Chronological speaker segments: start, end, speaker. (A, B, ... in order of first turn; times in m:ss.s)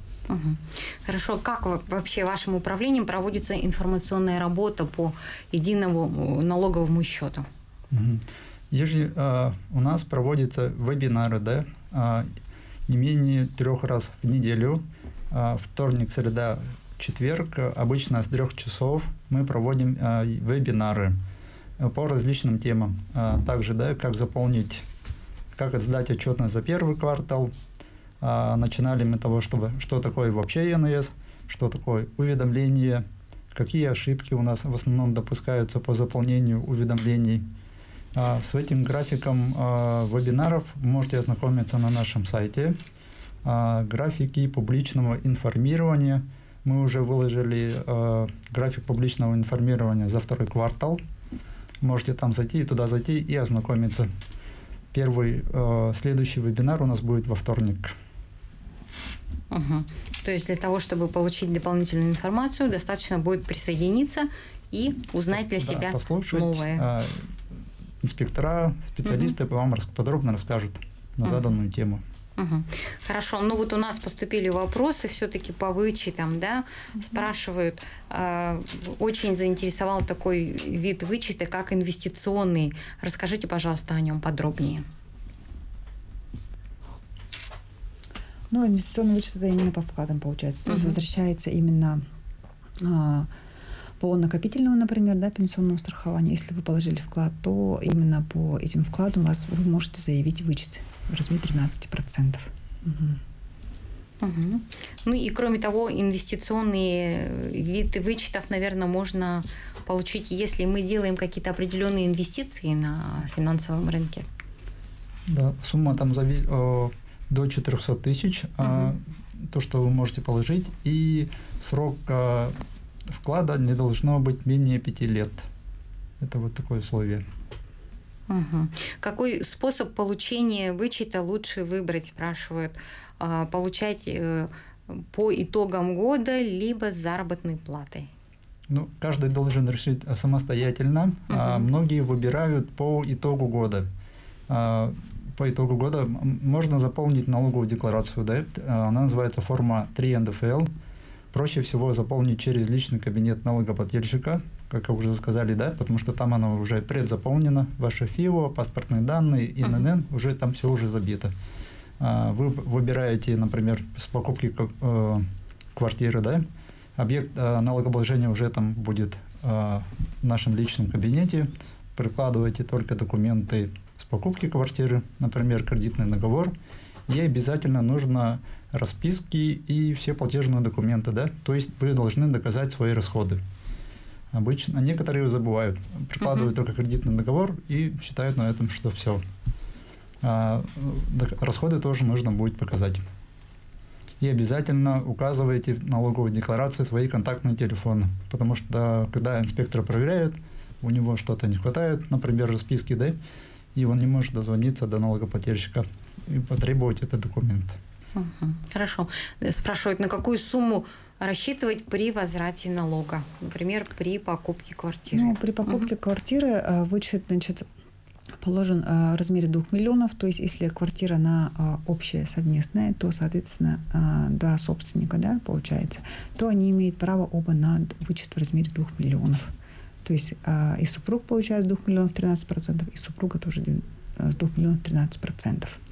0:00.3-0:07.5 A
0:07.9-0:12.3 B
0:12.9-0:21.2 B
0:21.8-0:24.8 B
0:25.6-0:27.5 B
0:28.2-0:37.4 B
0:38.2-0:42.8 B
0:43.4-0:51.0 B
0:51.8-0:54.1 B
0:54.9-0:58.0 B
0:59.5-1:06.8 A
1:05.3-1:07.3 B
1:08.0-1:12.0 B
1:09.0-1:09.3 A
1:11.2-1:11.6 A
1:12.4-1:24.9 A
1:28.5-1:32.0 C
1:30.7-1:31.0 A
1:32.8-1:33.3 C
1:34.0-1:43.2 C
1:44.2-1:54.3 A
1:55.3-2:02.6 B
1:58.6-1:58.9 A
2:03.1-2:05.5 B
2:06.2-2:07.2 B
2:08.3-2:18.1 A
2:18.7-2:23.9 B
2:21.3-2:21.7 A
2:24.5-2:30.7 B
2:31.3-2:41.3 B
2:39.6-2:39.9 A
2:42.0-2:46.4 B
2:47.0-2:56.5 B
2:57.1-3:03.4 B
3:04.3-3:09.2 B
3:06.2-3:06.5 A
3:10.2-3:13.0 B
3:14.2-3:23.2 B
3:23.8-3:27.8 B
3:28.2-3:35.9 A
3:35.1-3:37.7 C
3:38.4-3:49.5 C
3:50.0-3:55.8 C